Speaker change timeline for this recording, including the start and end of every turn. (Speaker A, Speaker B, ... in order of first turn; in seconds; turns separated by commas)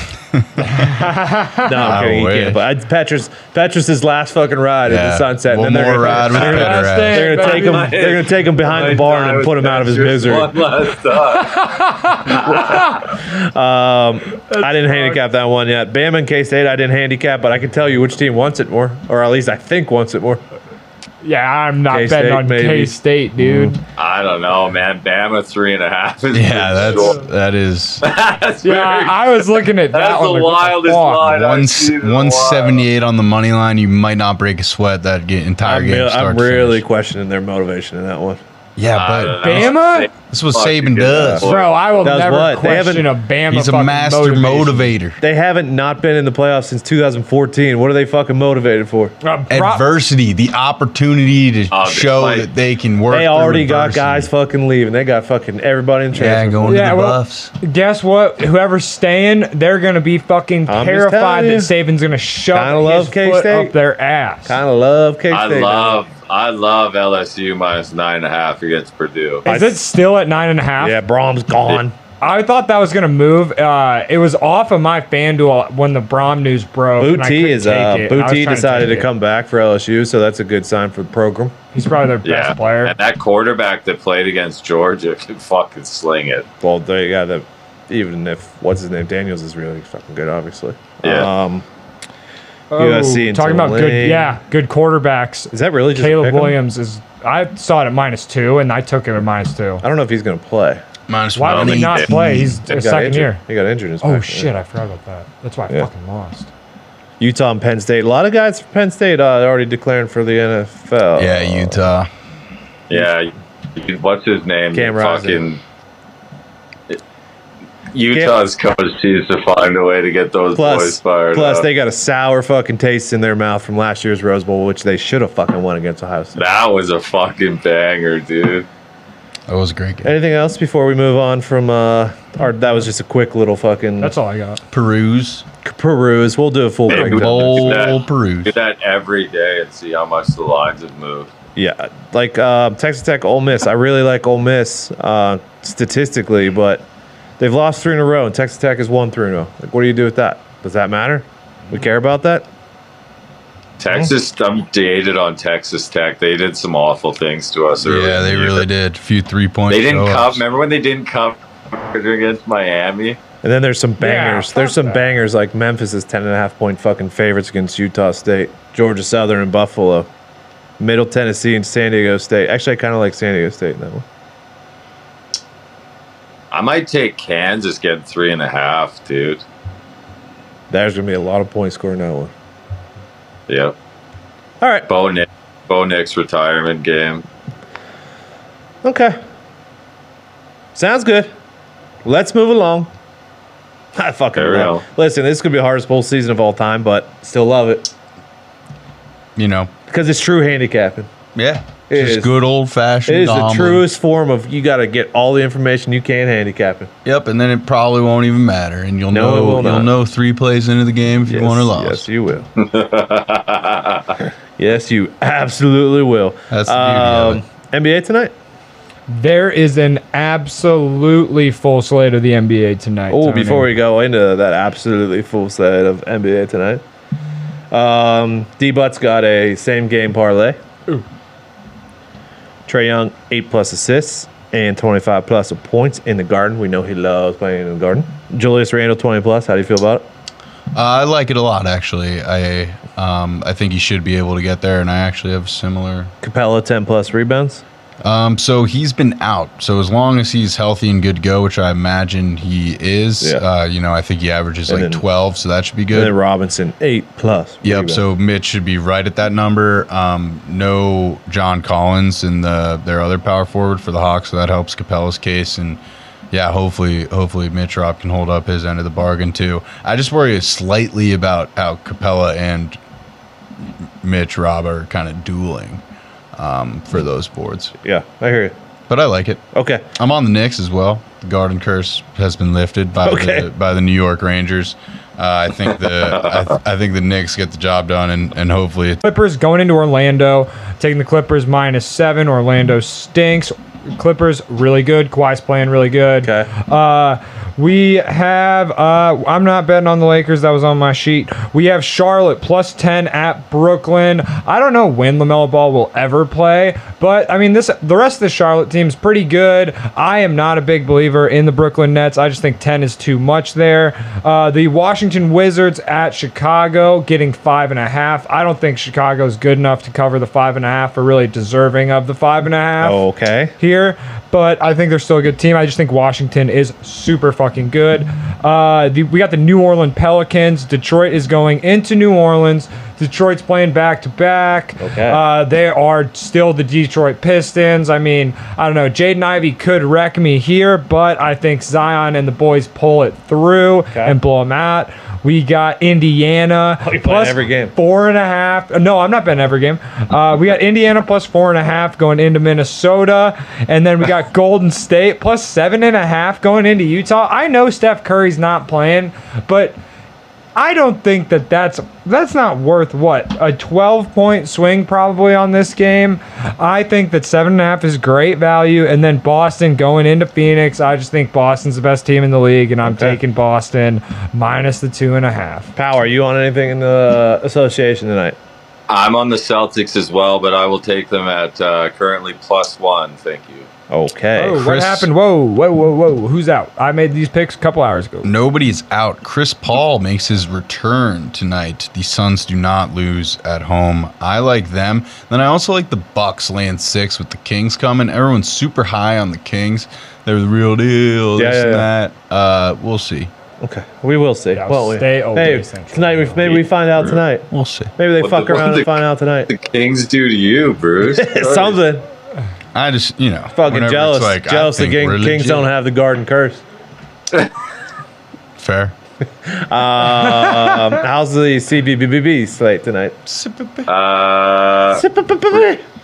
Speaker A: 0.3-0.9, Speaker B: 0.6-1.9, Speaker C: 1.6-10.5, Speaker A: 1.8-2.6, Speaker A: 4.8-7.3, Speaker B: 6.3-7.9, Speaker D: 7.2-11.6, Speaker B: 11.4-13.0, Speaker D: 12.2-12.9, Speaker C: 12.3-20.4, Speaker B: 14.5-15.2, Speaker B: 21.2-23.8, Speaker C: 21.9-23.8, Speaker D: 23.9-27.2, Speaker A: 26.3-28.0, Speaker D: 28.0-32.8, Speaker B: 28.6-31.3, Speaker A: 31.2-36.8, Speaker C: 35.6-38.4, Speaker A: 38.8-39.7, Speaker D: 38.9-42.0, Speaker B: 39.4-40.1, Speaker A: 40.3-41.5, Speaker C: 41.2-41.5, Speaker B: 41.5-44.9, Speaker C: 42.0-43.1, Speaker A: 43.5-45.2, Speaker C: 45.2-49.1, Speaker B: 49.2-49.9, Speaker A: 49.5-54.3, Speaker D: 51.7-52.5, Speaker C: 53.1-56.9, Speaker A: 56.1-57.5, Speaker B: 56.6-64.6, Speaker C: 60.7-61.7, Speaker C: 62.5-63.7, Speaker C: 64.5-66.0, Speaker D: 65.3-69.4, Speaker C: 69.4-69.8, Speaker B: 69.4-71.0, Speaker C: 70.8-71.9, Speaker B: 72.2-79.1, Speaker C: 77.0-81.5, Speaker B: 81.7-82.9, Speaker D: 82.2-86.5, Speaker C: 86.6-91.6, Speaker D: 91.0-91.3, Speaker B: 92.7-99.8, Speaker C: 92.8-94.3, Speaker C: 95.5-96.6, Speaker C: 99.8-100.8, Speaker A: 101.1-102.6, Speaker B: 101.3-103.4, Speaker D: 101.5-102.1, Speaker C: 102.6-104.5, Speaker B: 104.0-106.5, Speaker C: 107.2-111.8, Speaker A: 111.1-112.1, Speaker D: 112.9-115.6, Speaker C: 114.7-115.4, Speaker D: 117.9-121.7, Speaker C: 120.5-126.4, Speaker D: 126.3-128.7, Speaker A: 129.5-130.1, Speaker C: 130.0-134.1, Speaker B: 134.0-134.6, Speaker A: 134.7-135.4, Speaker C: 135.6-137.9, Speaker D: 136.9-141.3, Speaker A: 136.9-138.6, Speaker C: 141.6-146.8, Speaker C: 147.4-152.4, Speaker D: 153.8-158.7, Speaker A: 157.8-160.4, Speaker D: 159.7-163.2, Speaker C: 163.4-170.1, Speaker B: 164.0-165.0, Speaker C: 170.8-174.0, Speaker D: 176.5-179.4, Speaker C: 180.7-182.3, Speaker D: 183.5-183.7, Speaker C: 184.6-184.9, Speaker D: 184.9-187.2, Speaker C: 188.8-189.2, Speaker C: 190.7-191.3, Speaker C: 192.0-192.9, Speaker C: 193.9-197.9, Speaker D: 194.3-194.8, Speaker A: 199.3-199.7, Speaker C: 199.9-201.1, Speaker A: 201.3-203.8, Speaker C: 201.9-202.3, Speaker C: 203.1-206.9, Speaker A: 207.0-212.1, Speaker C: 209.1-209.9, Speaker C: 211.3-212.5, Speaker D: 212.6-214.2, Speaker C: 214.6-218.3, Speaker A: 216.5-217.4, Speaker B: 219.1-223.7, Speaker C: 223.1-226.8, Speaker C: 227.7-230.6, Speaker C: 232.7-240.1, Speaker A: 240.7-246.1, Speaker C: 246.2-247.6, Speaker A: 248.0-256.1, Speaker C: 254.7-255.0, Speaker C: 255.9-258.0, Speaker A: 257.6-265.8, Speaker A: 266.3-272.8, Speaker A: 274.0-275.8, Speaker A: 276.4-277.7, Speaker C: 277.8-278.6, Speaker A: 278.9-279.4, Speaker C: 279.5-279.8, Speaker A: 279.9-289.0, Speaker C: 283.0-283.5, Speaker D: 286.1-286.4, Speaker B: 289.0-323.0, Speaker C: 296.2-296.5, Speaker C: 322.8-323.5, Speaker B: 323.6-359.8, Speaker C: 334.8-335.2, Speaker C: 346.8-347.7, Speaker B: 360.5-375.7, Speaker C: 372.8-373.2, Speaker C: 375.8-378.4, Speaker D: 378.9-383.7, Speaker C: 383.9-385.0, Speaker B: 384.4-388.3, Speaker A: 388.2-403.3, Speaker C: 401.4-401.9, Speaker C: 403.6-409.5, Speaker B: 404.5-406.3, Speaker D: 406.4-407.2, Speaker A: 407.5-407.9, Speaker D: 408.2-411.8, Speaker C: 411.0-412.0, Speaker A: 412.7-415.7, Speaker C: 413.5-416.6, Speaker A: 418.6-418.9, Speaker C: 419.4-423.2, Speaker B: 420.2-420.8, Speaker A: 423.2-423.9, Speaker D: 423.9-425.0, Speaker C: 424.9-425.8